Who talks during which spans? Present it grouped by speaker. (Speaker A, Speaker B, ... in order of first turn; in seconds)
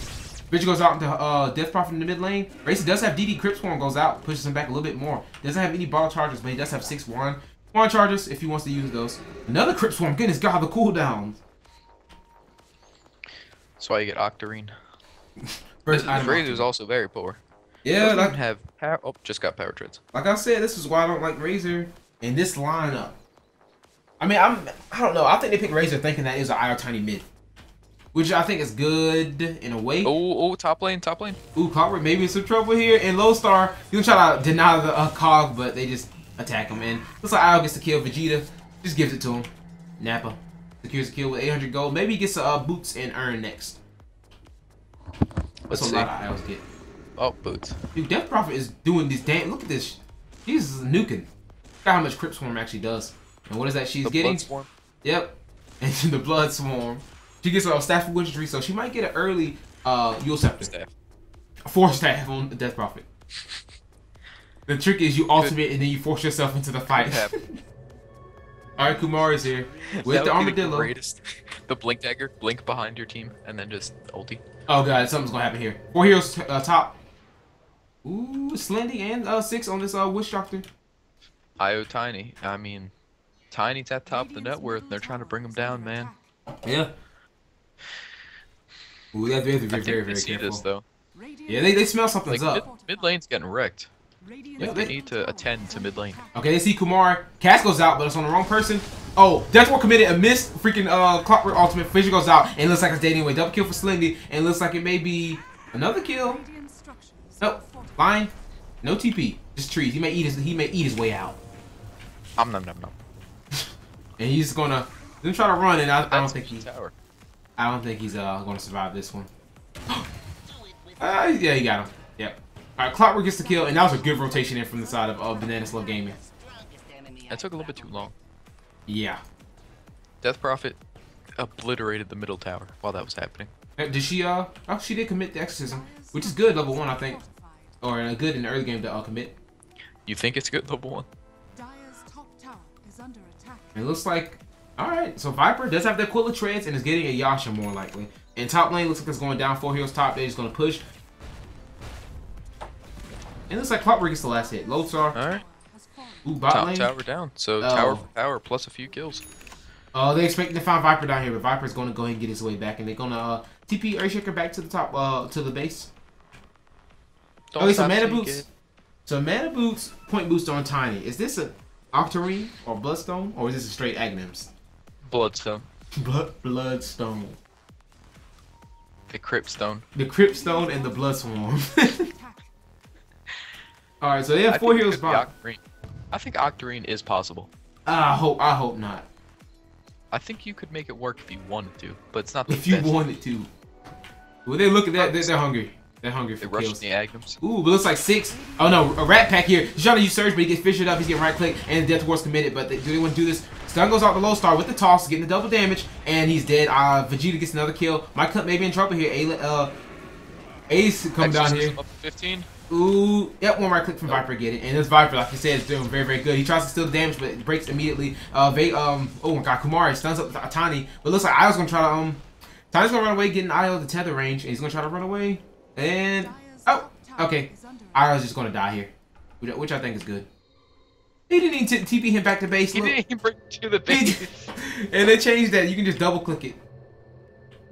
Speaker A: 0.5-11.4, 15.4-16.7, 17.8-18.4, 20.1-23.2, 24.2-27.2, 28.1-30.1, 31.5-43.8, 45.7-46.6, 47.9-51.3, 51.8-54.5, 55.0-60.7, 61.6-63.1, 64.7-67.4, 68.8-70.9, 74.7-77.0, 78.0-80.7, 86.6-86.9, 89.1-90.7, 91.5-92.7, 94.6-94.9, 96.3-106.4, 107.4-111.4, 114.2-116.7, 117.6-119.3, 121.0-126.2, 128.9-129.2, 133.8-137.2, 137.8-139.4, 143.7-150.8, 153.5-155.2, 156.2-156.9, 157.6-158.0, 159.9-165.9, 167.6-168.5, 169.1-174.5, 175.9-177.4, 179.9-182.1, 184.0-185.3, 187.8-189.1, 192.5-193.5, 194.4-196.8, 197.4-209.7, 210.7-211.8, 212.7-230.3, 231.3-233.0, 233.9-236.6
Speaker B: 13.8-14.7, 15.9-17.4, 18.0-20.0, 30.0-31.4, 45.7-46.1, 47.2-47.8, 54.0-54.7, 60.6-60.9, 66.9-67.4, 69.9-74.4, 81.6-82.9, 83.5-86.1, 89.7-90.8, 92.3-93.9, 94.6-96.2, 112.4-112.9, 116.1-116.9, 127.3-128.1, 130.2-130.8, 131.4-133.5, 140.1-141.1, 155.1-155.4, 156.5-159.2, 167.5-168.5, 175.1-175.7, 179.1-179.8, 184.5-187.5, 190.1-193.0, 194.9-195.4, 196.4-197.4, 211.2-212.5, 232.7-234.5
Speaker C: 84.1-86.3, 91.1-93.2, 94.2-96.5, 103.4-103.9, 106.0-108.2, 123.2-126.3, 135.6-137.8, 141.5-143.9, 153.6-156.5, 180.2-182.5, 198.3-200.6, 226.1-228.3